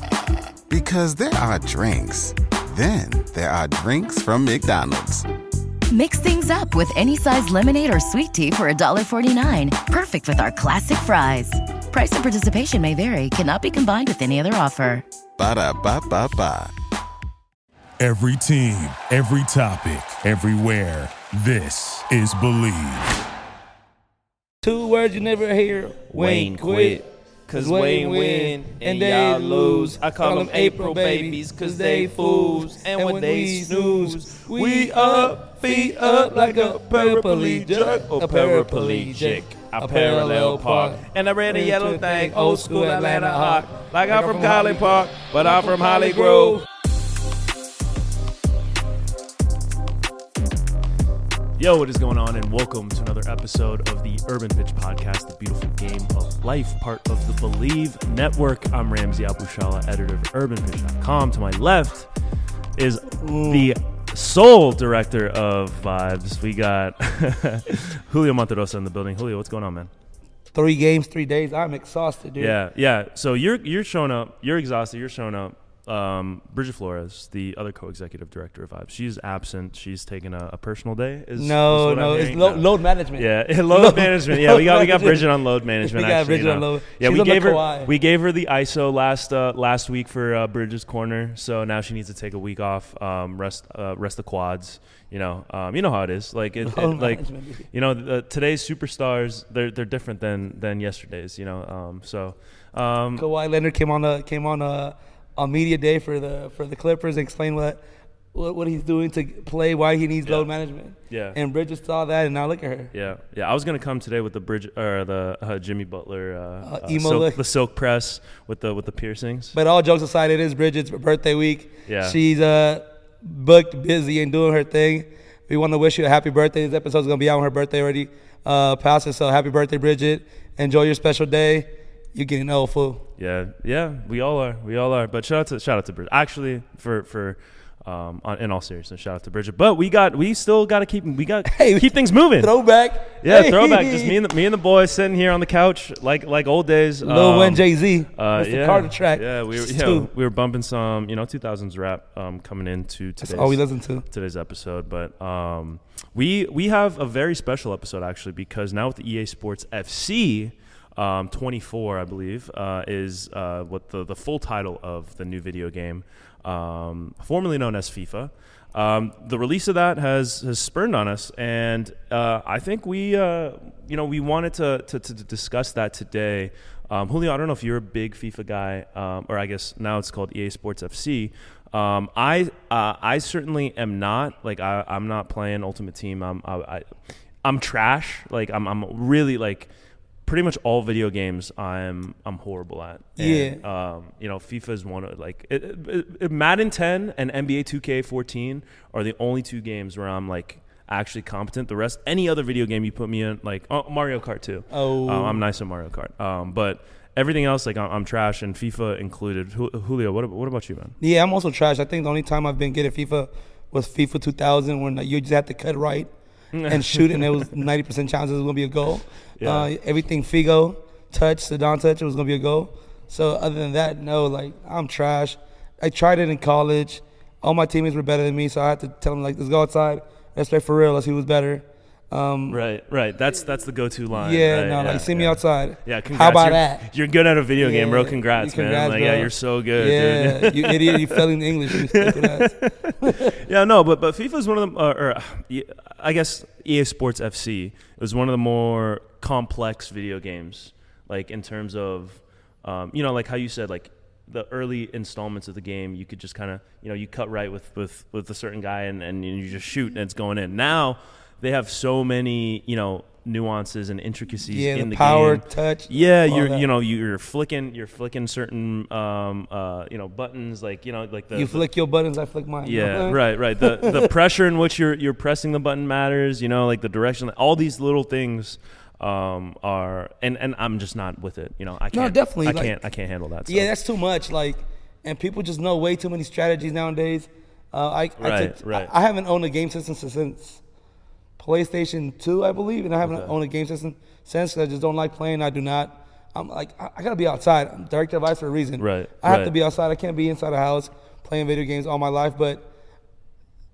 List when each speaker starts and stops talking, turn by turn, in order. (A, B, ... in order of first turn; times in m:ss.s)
0:00.7-0:05.3 A
0:05.9-0:15.0 B
0:15.4-0:16.7 A
0:18.0-0:23.2 C
0:24.6-0:46.6 D
0:26.1-0:46.6 E
0:51.6-1:02.1 E
1:02.8-1:09.9 E
1:03.2-1:03.7 D
1:10.5-1:12.6 D
1:12.4-1:43.3 E
1:21.4-1:27.9 D
1:36.6-1:37.7 D
1:43.2-1:47.8 D
1:48.3-1:52.9 D
1:51.1-1:51.4 E
1:52.9-1:59.6 E
1:56.6-1:57.4 D
1:59.5-2:13.0 D
2:01.9-2:02.2 E
2:13.2-2:22.5 E
2:21.4-2:24.2 D
2:23.2-3:06.9 E
2:27.0-2:30.1 D
2:33.2-2:34.0 D
3:07.4-3:09.7 E
3:10.2-3:31.0 E
3:13.2-3:13.6 D
3:24.7-3:25.4 D
3:31.0-3:36.1 D
3:36.5-3:37.6 E
3:36.7-3:52.6 D
3:39.4-3:39.7 E
3:52.5-4:31.6 E
3:54.1-3:56.9 D
3:57.6-4:03.4 D
4:24.5-4:26.7 D
4:31.3-4:34.1 D
4:32.6-4:43.7 E
4:41.9-4:42.8 D
4:43.5-4:50.6 D
4:48.2-4:48.9 E
4:51.4-5:02.7 D
4:53.0-4:53.3 E
4:58.8-4:59.5 E